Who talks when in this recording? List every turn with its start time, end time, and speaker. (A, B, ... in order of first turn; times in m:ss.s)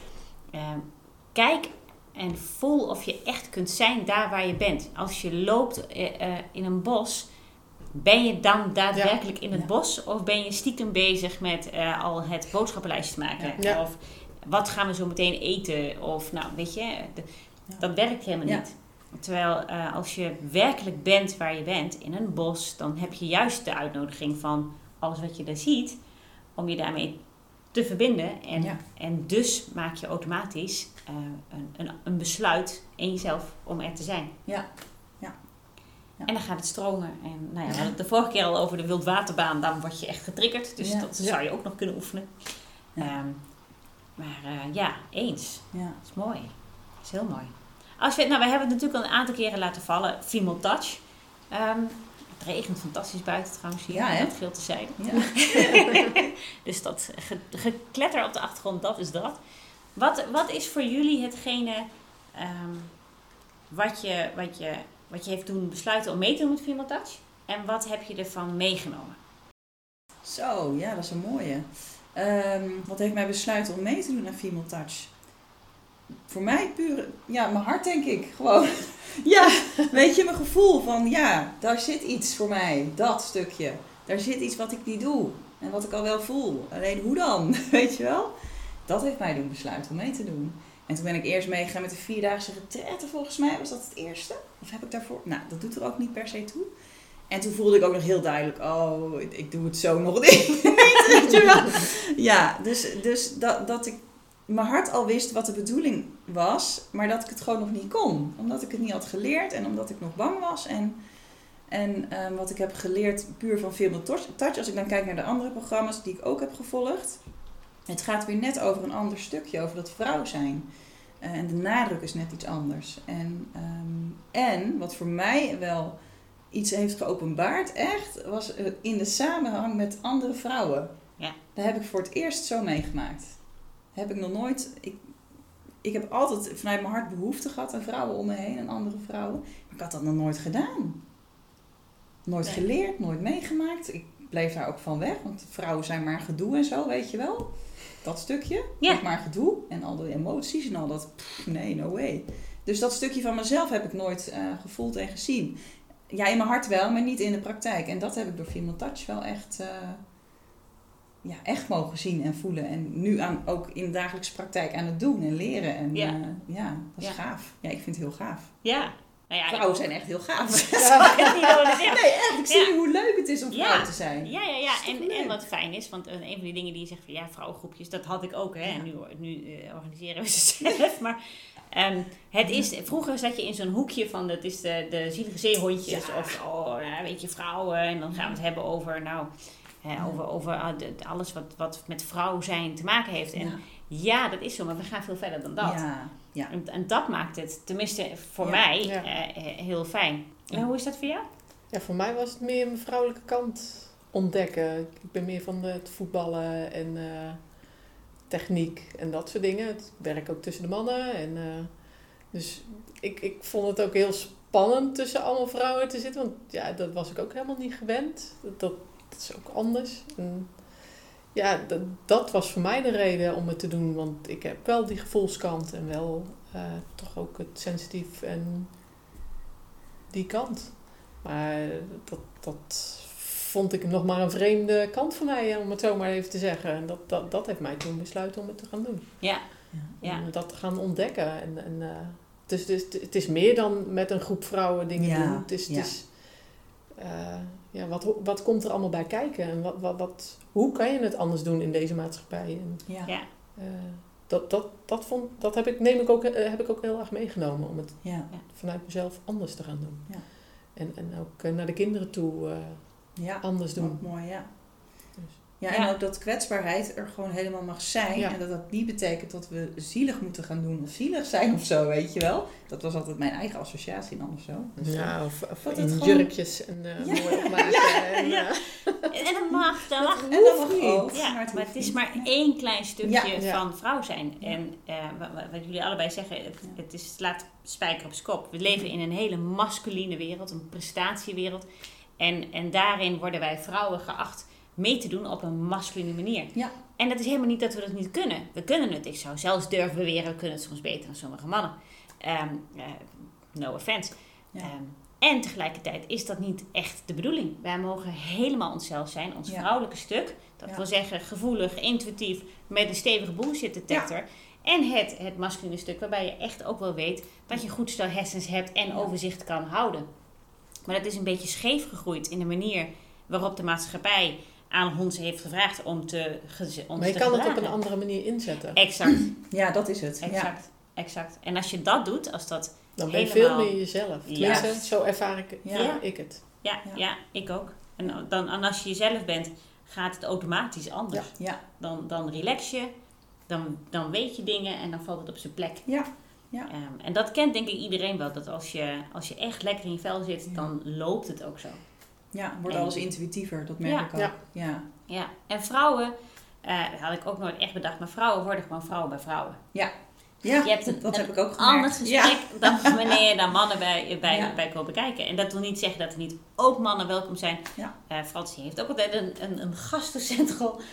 0:00.5-0:07.3 A
0:07.9-0:26.0 A
0:13.6-0:13.8 B
0:26.5-0:34.4 A
0:34.4-0:35.5 C
0:36.2-0:43.6 A
0:40.8-0:41.1 C
0:44.1-0:59.4 A
0:45.7-0:46.0 C
0:53.9-0:55.8 C
0:59.9-1:03.0 A
1:03.7-1:09.2 A
1:10.2-1:15.1 C
1:16.3-1:36.7 C
1:37.3-1:51.0 C
1:51.6-1:57.2 C
1:57.9-2:00.7 C
2:01.2-2:06.0 C
2:06.5-2:10.9 C
2:11.5-2:15.1 C
2:15.8-2:21.0 C
2:22.2-2:40.0 C
2:41.2-2:48.7 C
2:45.9-2:46.2 A
2:48.6-2:49.7 A
2:49.5-2:55.4 C
2:50.6-2:52.7 A
2:50.8-2:51.3 B
2:53.5-3:01.2 A
3:01.7-3:21.3 A
3:05.8-3:06.3 C
3:08.1-3:08.4 C
3:13.4-3:13.6 C
3:15.6-3:16.5 C
3:21.7-3:48.7 B
3:50.1-4:24.1 B
3:59.2-4:00.2 A
4:05.0-4:05.9 C
4:12.9-4:13.2 C
4:18.0-4:18.3 C
4:23.1-4:25.0 C
4:25.6-4:36.3 C
4:25.7-4:25.9 A
4:34.8-4:39.1 B
4:37.0-4:38.2 C
4:37.1-4:51.6 A
4:40.0-4:40.3 B
4:40.3-4:42.3 C
4:43.0-4:43.3 C
4:43.4-4:43.6 B
4:52.2-5:20.1 A
5:20.8-5:28.0 A
5:27.0-5:28.8 B
5:28.7-5:29.3 A
5:29.2-5:30.5 C
5:30.2-5:34.9 A
5:33.0-5:36.4 B
5:34.4-5:34.8 C
5:35.6-5:36.0 C
5:35.7-5:42.9 A
5:43.4-5:52.1 A
5:45.8-5:46.7 C
5:52.3-5:54.8 C
5:52.7-5:53.2 A
5:53.8-5:54.5 A
5:55.1-5:59.6 A
5:59.7-6:03.2 C
6:00.6-6:10.8 A
6:04.3-6:04.6 C